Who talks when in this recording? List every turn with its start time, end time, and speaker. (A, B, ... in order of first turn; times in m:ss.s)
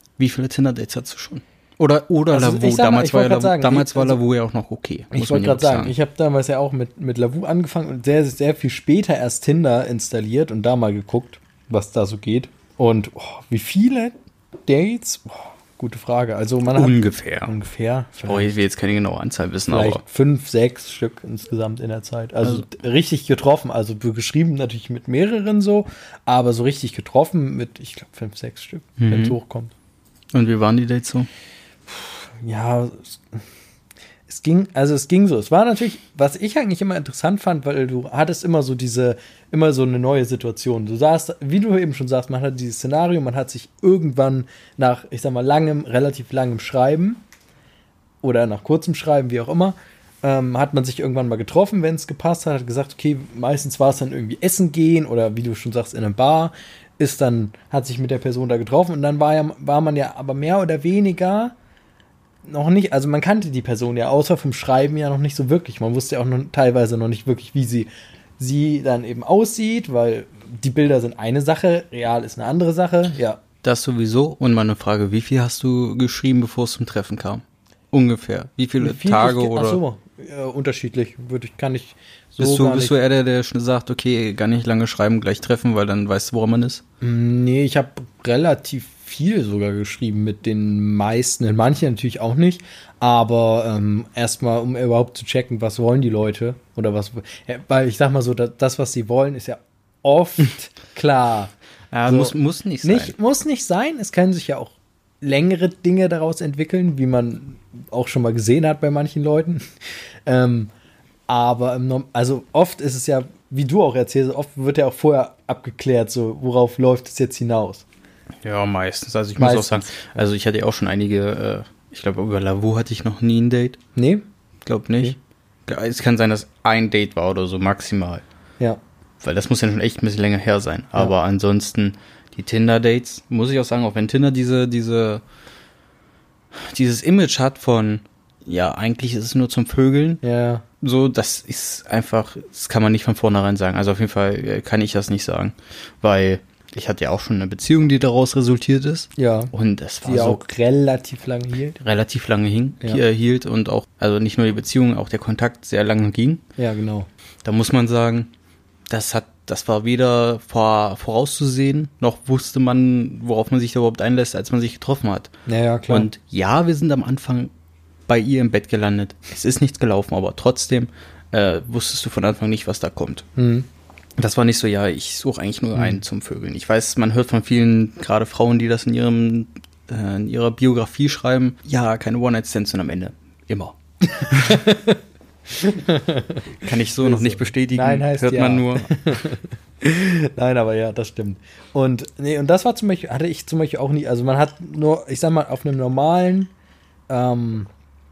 0:00.2-0:05.9 A
0:02.3-0:04.2 B
0:05.1-0:14.2 B
0:14.7-0:18.6 B
0:16.7-0:17.6 A
0:18.2-0:20.0 A
0:19.7-0:29.7 B
0:29.0-0:29.4 A
0:30.3-0:31.3 A
0:31.9-0:33.4 B
0:34.3-0:47.2 B
0:48.2-1:01.6 B
1:02.4-1:13.4 B
1:13.6-1:19.8 A
1:18.8-1:22.9 B
1:22.4-1:26.8 A
1:27.0-1:41.5 B
1:41.9-1:43.1 A
1:42.1-1:49.7 B
1:50.2-1:50.7 B
1:51.3-1:57.8 B
1:58.4-2:03.8 A
1:59.4-2:00.0 B
2:04.0-2:04.2 B
2:04.6-2:08.2 A
2:09.2-2:15.2 A
2:16.6-2:20.2 A
2:20.2-2:20.6 B
2:20.8-2:30.5 A
2:29.2-2:29.5 B
2:30.0-2:31.8 B
2:31.8-2:36.4 A
2:36.6-2:37.1 B
2:37.4-2:38.3 A
2:38.9-2:45.3 A
2:45.5-2:46.1 B
2:45.9-2:47.5 A
2:48.1-2:53.3 A
2:53.4-2:53.7 B
2:54.2-3:04.6 A
2:55.8-2:56.0 B
3:04.1-3:06.5 B
3:06.6-3:08.9 A
3:07.0-3:16.5 B
3:17.1-3:17.7 B